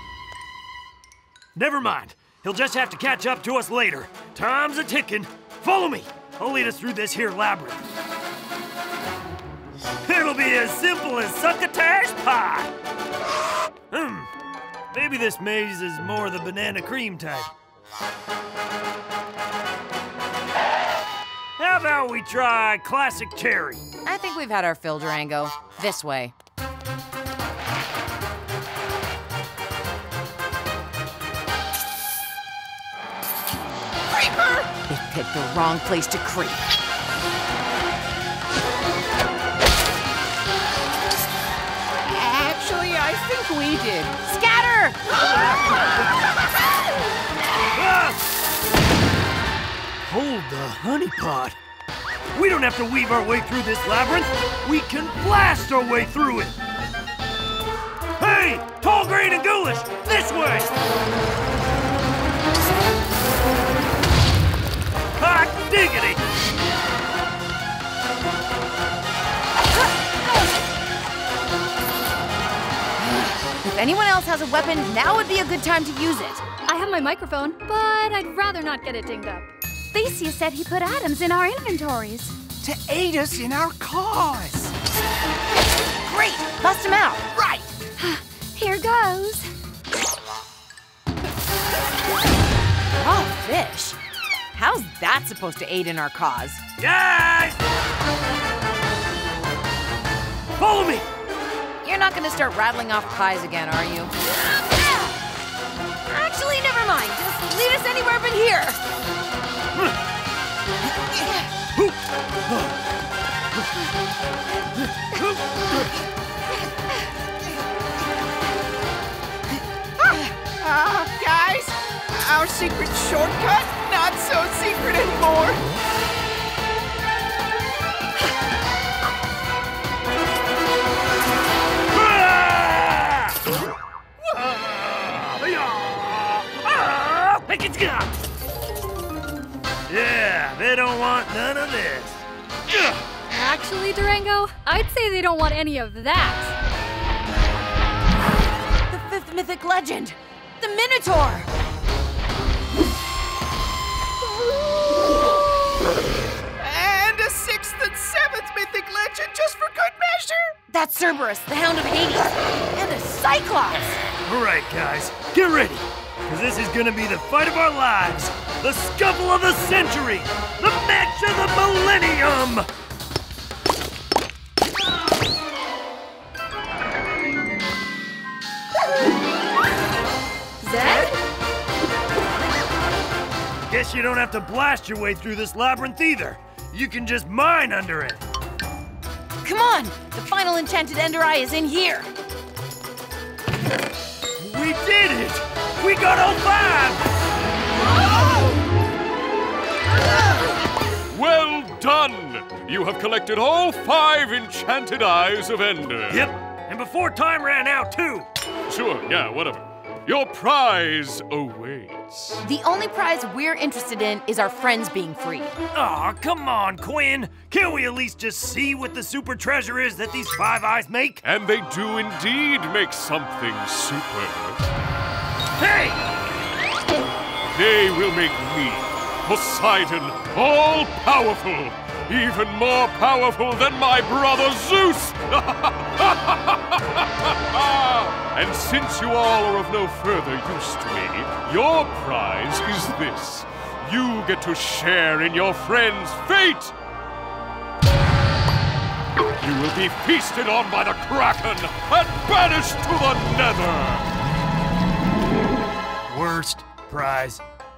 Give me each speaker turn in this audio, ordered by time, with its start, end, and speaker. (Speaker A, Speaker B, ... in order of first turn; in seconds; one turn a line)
Speaker A: 1.6-7.9
Speaker A: 10.0-12.7
Speaker A: 13.9-14.3
Speaker A: 14.9-17.5
Speaker A: 21.6-23.9
Speaker B: 24.1-26.3
Speaker C: 34.2-34.7
Speaker B: 34.8-36.6
Speaker B: 42.0-45.5
Speaker A: 47.7-48.2
Speaker A: 50.1-51.6
Speaker A: 52.3-56.6
Speaker A: 58.2-60.7
Speaker A: 65.2-66.2
Speaker B: 73.2-76.5
Speaker D: 76.7-82.4
Speaker C: 82.6-84.7
Speaker B: 86.0-87.7
Speaker D: 88.0-89.5
Speaker B: 92.9-94.0
Speaker B: 94.5-96.6
Speaker A: 96.8-97.6
Speaker A: 100.6-101.1
Speaker B: 101.8-104.1
Speaker B: 106.1-108.8
Speaker B: 111.2-111.5
Speaker A: 111.8-112.8
Speaker A: 115.1-115.9
Speaker B: 120.0-120.9
Speaker C: 120.7-125.6
Speaker A: 131.9-133.4
Speaker A: 134.2-138.1
Speaker A: 139.9-143.0
Speaker D: 143.3-146.5
Speaker B: 148.9-151.5
Speaker C: 156.6-160.5
Speaker B: 160.7-164.0
Speaker A: 164.2-172.7
Speaker D: 180.6-181.2
Speaker A: 183.7-188.2
Speaker B: 189.4-192.1
Speaker A: 194.4-197.1
Speaker E: 201.1-206.3
Speaker A: 206.1-208.3
Speaker E: 208.7-212.4
Speaker B: 212.4-215.6
Speaker A: 215.7-221.2
Speaker E: 221.2-224.6
Speaker A: 225.6-226.0
Speaker E: 227.5-246.7
Speaker E: 249.4-254.1
Speaker A: 256.1-257.4